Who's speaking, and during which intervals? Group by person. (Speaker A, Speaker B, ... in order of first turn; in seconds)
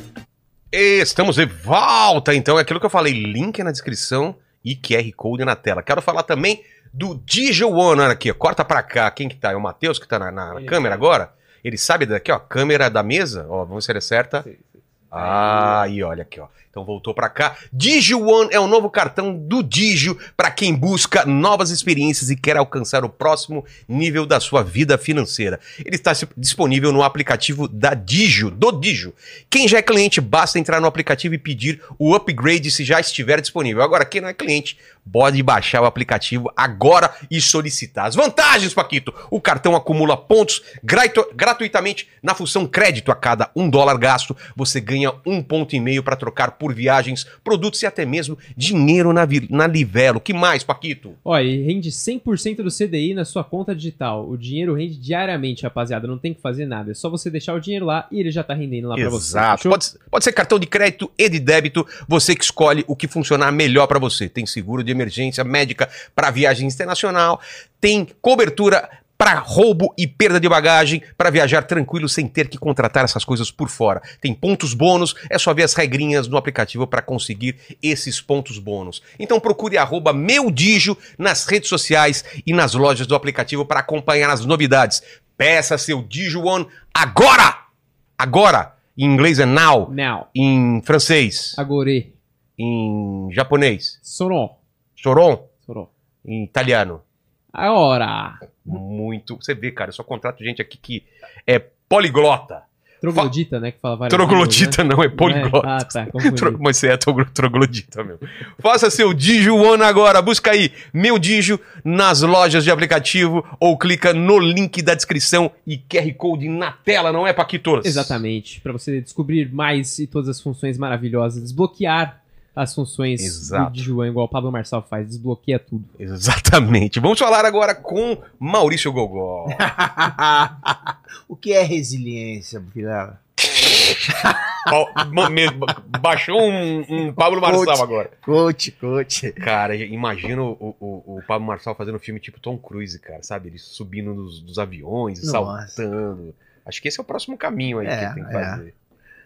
Speaker A: 0.7-14.4, 15.1-51.2, 59.0-87.6, 88.2-91.6, 92.6-94.0, 95.0-95.5, 96.2-97.0, 98.7-103.3, 104.1-118.2, 123.2-123.8, 126.0-129.7, 133.6-134.0, 134.7-138.1, 139.4-148.7
Speaker B: 10.5-11.1, 14.4-15.9, 51.2-59.8, 89.9-90.3, 91.6-92.2, 94.0-94.6, 97.5-98.5, 103.0-106.6, 117.8-125.9
Speaker C: 129.6-133.2, 134.2-134.5, 137.4-139.4, 145.2-145.8, 147.8-148.6